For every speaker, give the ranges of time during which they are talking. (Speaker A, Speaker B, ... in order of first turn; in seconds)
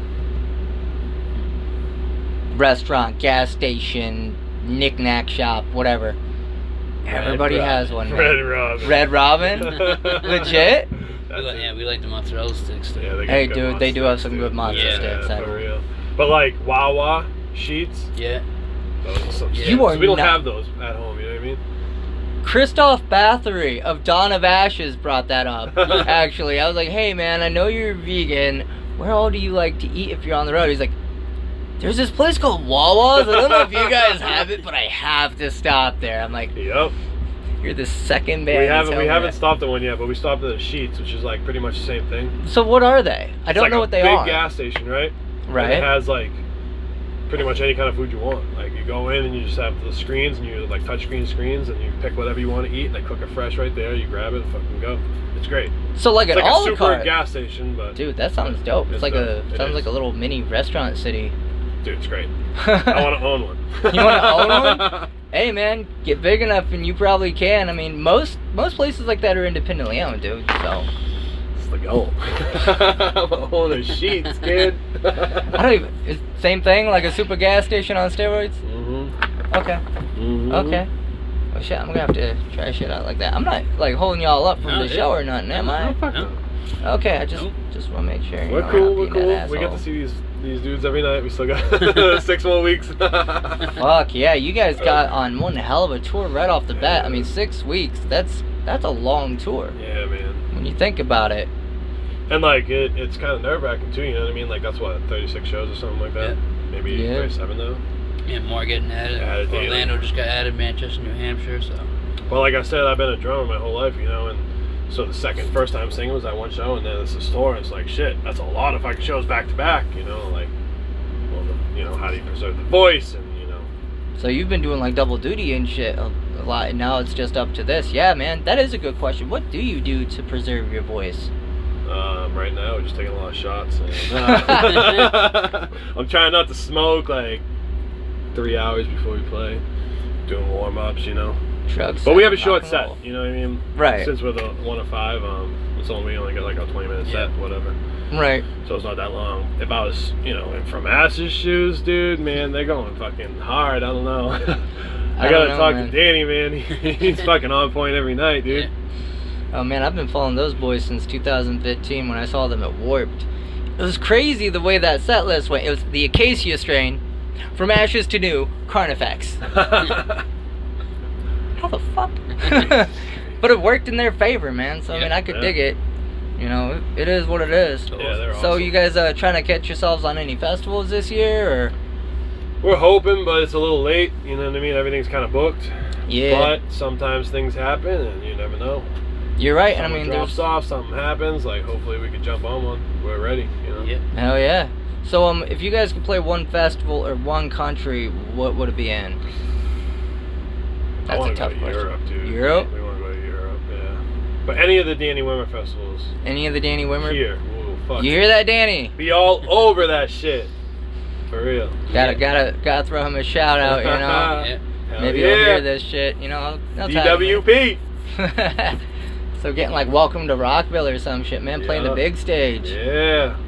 Speaker A: 2.5-6.2, 7.0-10.9, 13.3-15.6, 19.6-20.4, 22.4-30.9, 31.8-36.5, 37.6-39.4, 42.4-44.4, 45.5-45.9, 55.9-57.1, 57.9-61.3, 62.6-63.1, 63.9-70.9, 75.5-78.6, 79.5-79.8, 80.5-80.9, 81.5-86.0, 86.8-89.8, 93.7-99.8, 100.5-101.5, 106.9-107.3, 124.2-131.3, 134.2-134.8, 141.7-143.0, 143.7-144.1, 148.1-148.5, 155.2-156.0, 159.5-163.3, 163.8-167.0, 167.5-169.6, 171.6-175.8, 176.4-181.7, 186.1-186.6, 189.4-190.4, 194.1-199.2, 201.1-202.7, 206.2-207.2, 208.0-208.9, 211.9-214.4, 215.0-217.5, 218.1-218.8, 219.4-222.7
Speaker B: 7.0-10.7, 11.3-11.7, 13.0-18.1, 19.0-21.6, 36.5-36.9, 38.5-42.4, 43.5-46.4, 47.3-55.7, 56.3-59.9, 61.8-65.1, 71.5-75.5, 78.6-79.1, 80.2-80.8, 85.6-86.4, 88.4-93.8, 96.7-97.3, 99.7-100.5, 102.3-107.8, 109.2-110.0, 112.3-120.5, 121.3-123.7, 131.8-137.4, 138.3-139.6, 140.2-141.4, 142.0-147.8, 148.6-154.7, 155.2-158.7, 169.5-170.2, 175.2-175.5, 177.9-178.8, 182.6-188.9, 189.7-193.9, 201.0-206.1, 207.0-208.3, 208.9-210.5, 211.3-212.2, 213.6-215.7, 216.8-217.8, 221.6-222.1, 222.6-223.4
Speaker C: 7.1-7.8, 9.8-10.7, 11.3-13.2, 14.7-15.2, 18.1-18.4, 19.5-19.9, 84.6-86.3, 108.2-111.9, 147.0-147.3, 214.3-214.6